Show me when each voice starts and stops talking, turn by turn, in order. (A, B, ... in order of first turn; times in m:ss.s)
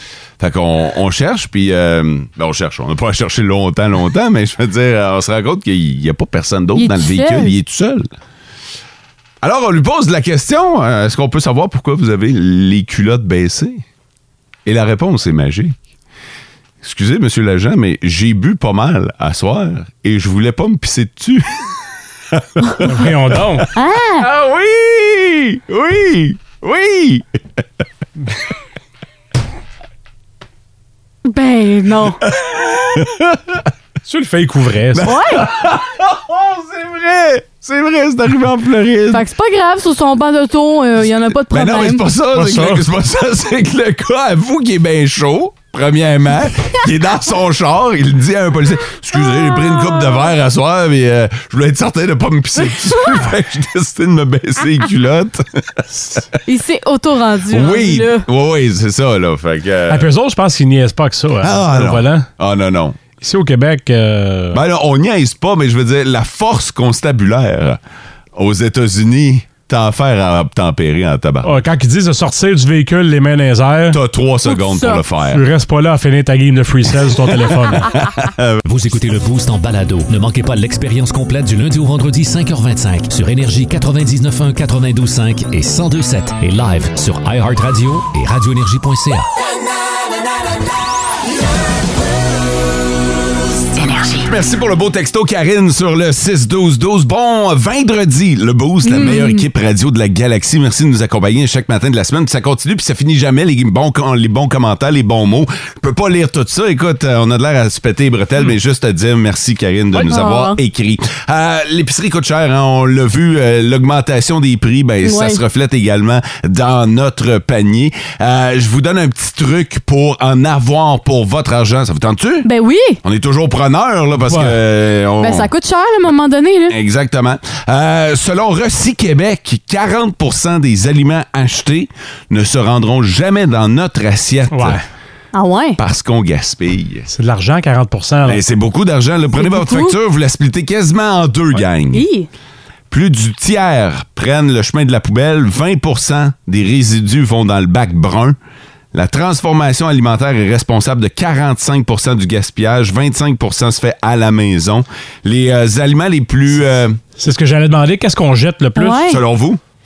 0:00.4-0:08.1 A
0:06.8-0:07.5 B
0:09.4-0:13.8 A
0:14.6-0:15.8 A
0:16.8-0:21.6 A
0:22.3-0:22.9 A
0:22.8-0:23.7 C
0:23.8-0:24.3 B
0:24.2-0:27.2 A
0:31.3-0:32.2 B
0:32.3-0:33.7 A
0:34.1-0:35.1 C
0:34.9-0:39.2 A
0:35.0-0:35.5 B
0:39.1-0:42.0 B
0:41.5-0:56.2 A
0:42.3-0:42.8 C
0:49.4-0:50.1 B
0:56.5-0:58.2 B
0:57.5-1:00.1 A
0:59.9-1:02.3 C
1:01.4-1:03.0 A
1:03.2-1:04.6 C
1:04.5-1:07.8 A
1:08.4-1:11.5 A
1:11.4-1:14.0 C
1:13.9-1:15.4 A
1:14.5-1:15.0 B
1:15.3-1:17.9 C
1:17.4-1:18.6 A
1:18.6-1:29.3 D
1:34.2-2:02.5 A
1:38.8-1:39.4 B
1:50.0-1:50.6 B
1:55.0-1:55.4 B
2:02.4-2:03.0 B
2:03.0-2:05.5 A
2:04.3-2:04.6 C
2:05.2-2:06.8 B
2:06.7-2:14.8 A
2:14.5-2:14.8 C
2:15.3-2:15.8 B
2:15.8-2:17.1 A
2:17.1-2:18.4 C
2:18.2-2:22.1 A
2:19.4-2:20.0 B
2:21.9-2:22.3 B
2:22.9-2:28.4 A
2:28.9-2:37.0 A
2:37.2-2:39.0 C
2:38.8-2:39.2 B
2:39.0-2:39.6 A